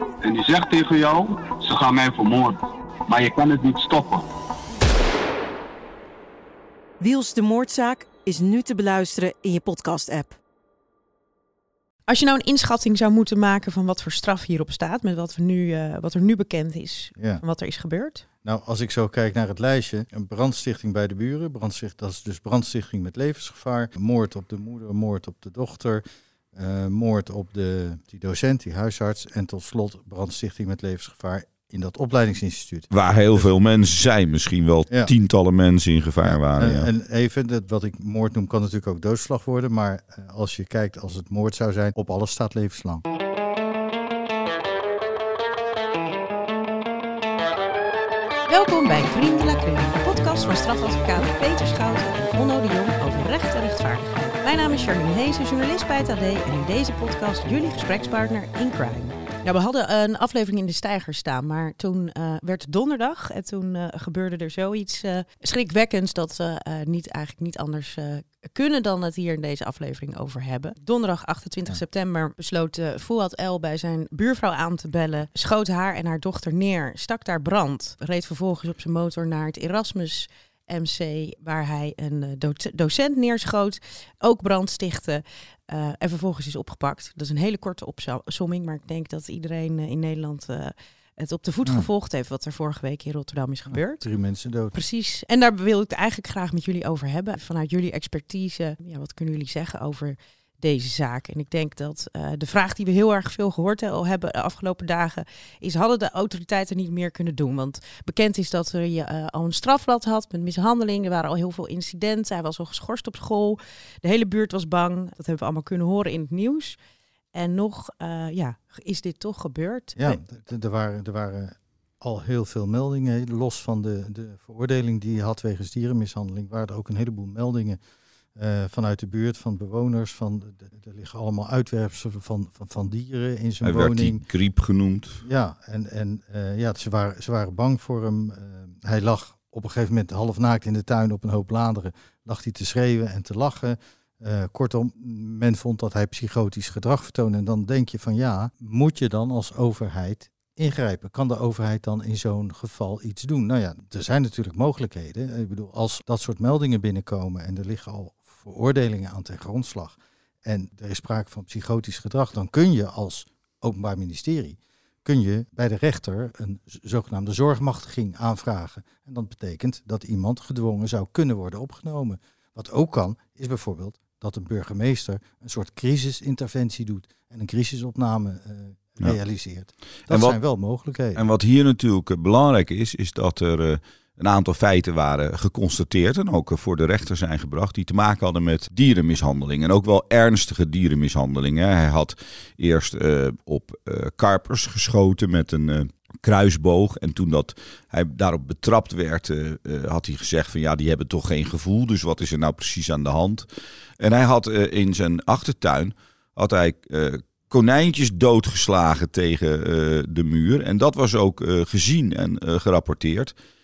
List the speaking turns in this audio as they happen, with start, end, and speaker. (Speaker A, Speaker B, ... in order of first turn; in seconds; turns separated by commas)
Speaker A: 0.2-4.2, Speaker B: 7.0-10.4, Speaker C: 12.1-18.2, Speaker D: 17.2-17.4, Speaker D: 18.4-26.0, Speaker D: 26.5-33.5, Speaker E: 32.9-36.9, Speaker D: 36.2-43.0, Speaker C: 48.5-94.0, Speaker D: 93.7-94.7, Speaker C: 94.7-116.8, Speaker C: 117.3-120.2, Speaker D: 120.0-127.8, Speaker D: 128.3-134.2, Speaker E: 133.6-135.2, Speaker D: 135.2-181.2, Speaker E: 180.1-180.3, Speaker E: 181.1-203.4, Speaker E: 204.0-213.3